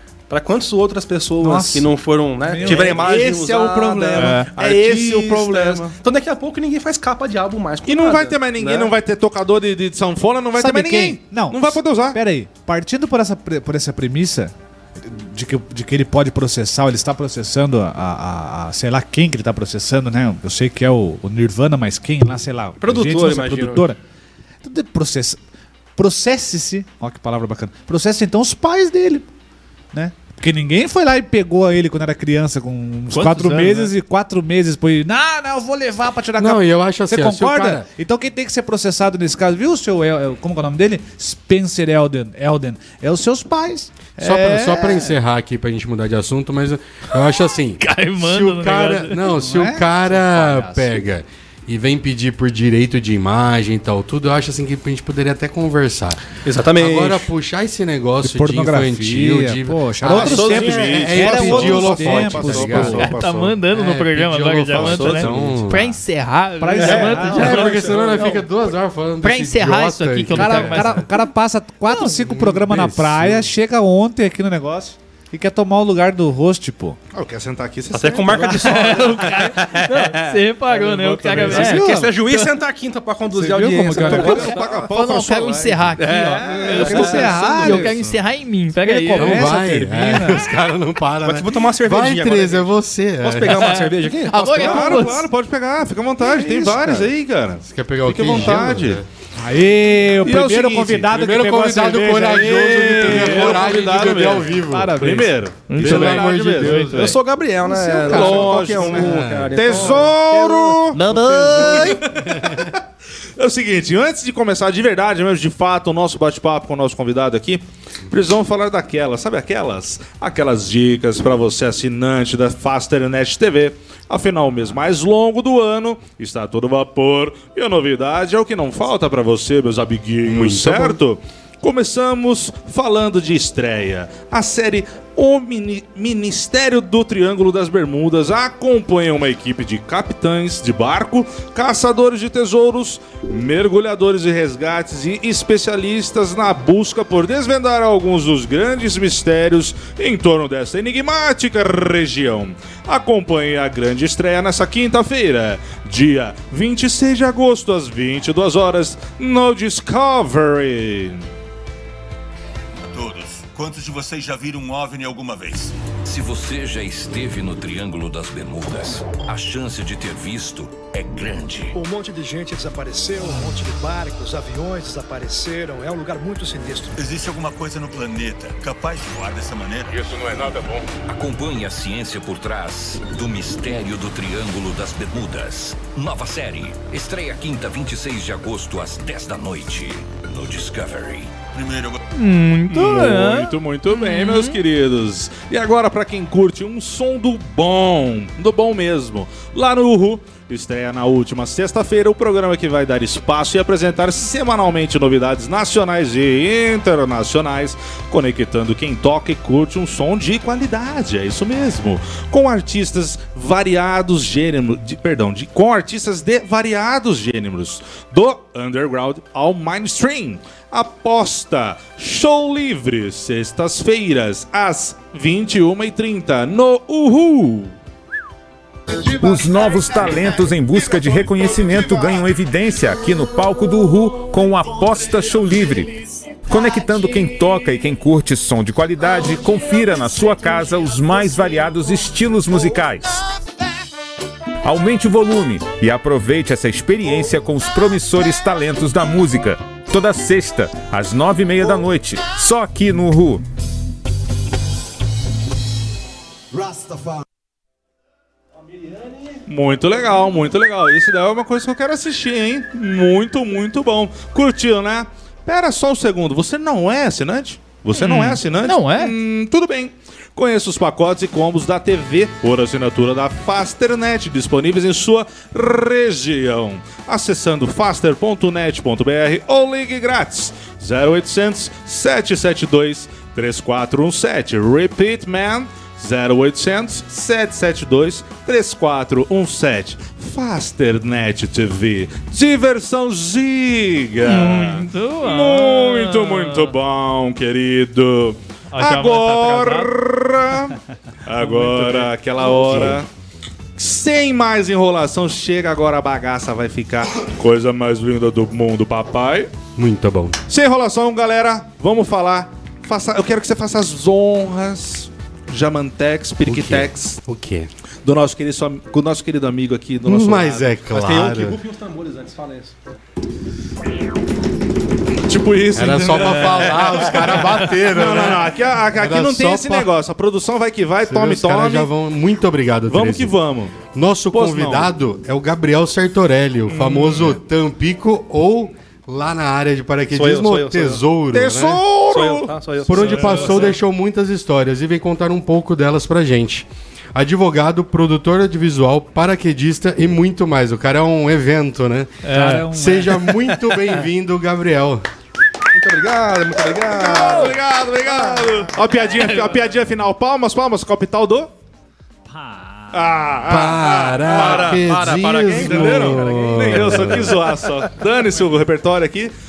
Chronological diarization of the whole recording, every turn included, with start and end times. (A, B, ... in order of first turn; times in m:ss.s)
0:00.3-0:08.9 A
0:01.4-0:01.9 B
0:02.4-0:03.0 B
0:02.6-0:05.9 C
0:04.2-0:04.5 D
0:07.8-0:12.2 C
0:10.6-0:24.0 B
0:22.8-0:23.9 A
0:24.6-0:25.4 B
0:26.0-0:29.3 B
0:29.9-0:45.1 B
0:33.1-0:33.9 D
0:36.4-0:37.9 E
0:44.2-0:56.2 E
0:47.8-0:49.3 D
0:49.4-0:51.0 B
0:56.4-0:57.3 A
0:56.7-1:03.1 E
0:58.2-1:03.1 B
1:00.0-1:03.5 C
1:00.3-1:01.1 A
1:02.9-1:08.4 D
1:03.7-1:06.0 E
1:04.7-1:05.6 C
1:06.6-1:07.8 B
1:06.8-1:08.2 A
1:07.1-1:11.1 E
1:09.2-1:11.0 D
1:10.3-1:17.0 B
1:12.0-1:13.5 E
1:17.1-1:18.8 C
1:17.9-1:20.4 A
1:18.4-1:22.4 D
1:21.2-1:22.2 B
1:21.3-1:21.6 C
1:21.4-1:24.6 A
1:23.3-1:24.5 B
1:23.9-1:28.2 C
1:24.2-1:29.5 D
1:26.0-1:27.7 A
1:26.7-1:28.0 B
1:28.8-1:30.4 B
1:29.2-1:33.8 E
1:31.2-1:35.1 A
1:33.5-1:35.3 D
1:34.5-1:39.0 C
1:36.5-1:37.0 A
1:37.6-1:39.0 E
1:39.4-1:43.7 B
1:40.2-1:41.1 C
1:41.1-1:45.0 E
1:42.9-1:46.9 C
1:44.6-1:45.3 B
1:45.7-1:47.1 D
1:45.8-1:47.2 E
1:46.9-1:52.0 A
1:47.7-1:48.5 B
1:48.0-1:51.0 C
1:48.2-1:50.0 E
1:51.0-1:52.0 B
1:51.6-1:52.7 C
1:53.4-2:41.2 C
2:10.2-2:11.0 E
2:42.9-2:45.8 F
2:46.0-2:51.8 G
2:51.7-2:57.0 H
2:57.0-3:00.6 F
3:01.0-3:11.4 G
3:11.5-3:12.0 F
3:12.1-3:14.6 D
3:12.7-3:47.7 C
3:49.0-4:03.2 I
4:04.6-4:13.4 I
4:18.6-4:19.4 A
4:19.5-5:03.1 C
4:27.9-4:29.1 D
4:54.2-4:56.7 D
4:58.7-4:59.9 D
5:02.5-5:03.0 E
5:03.8-5:09.5 C
5:09.8-5:10.4 E
5:10.5-5:17.2 C
5:16.4-5:17.7 E
5:18.0-5:20.8 C
5:20.0-5:21.6 E
5:20.9-5:22.8 A
5:25.2-5:31.9 C
5:25.7-5:29.9 E
5:31.0-5:41.8 E
5:32.9-5:33.8 C
5:34.3-5:34.9 C
5:36.7-5:37.4 C
5:40.1-5:41.0 A
5:41.3-5:42.5 C
5:42.1-5:43.8 A
5:42.9-5:55.0 E
5:43.1-5:43.5 B
5:52.2-5:52.6 D
5:52.2-5:53.1 B
5:55.7-5:58.5 A
5:56.8-6:01.5 C
6:02.3-6:03.1 B
6:02.9-6:04.8 C
6:03.4-6:07.4 E
6:04.2-6:06.5 A
6:05.5-6:09.3 C
6:06.2-6:06.8 B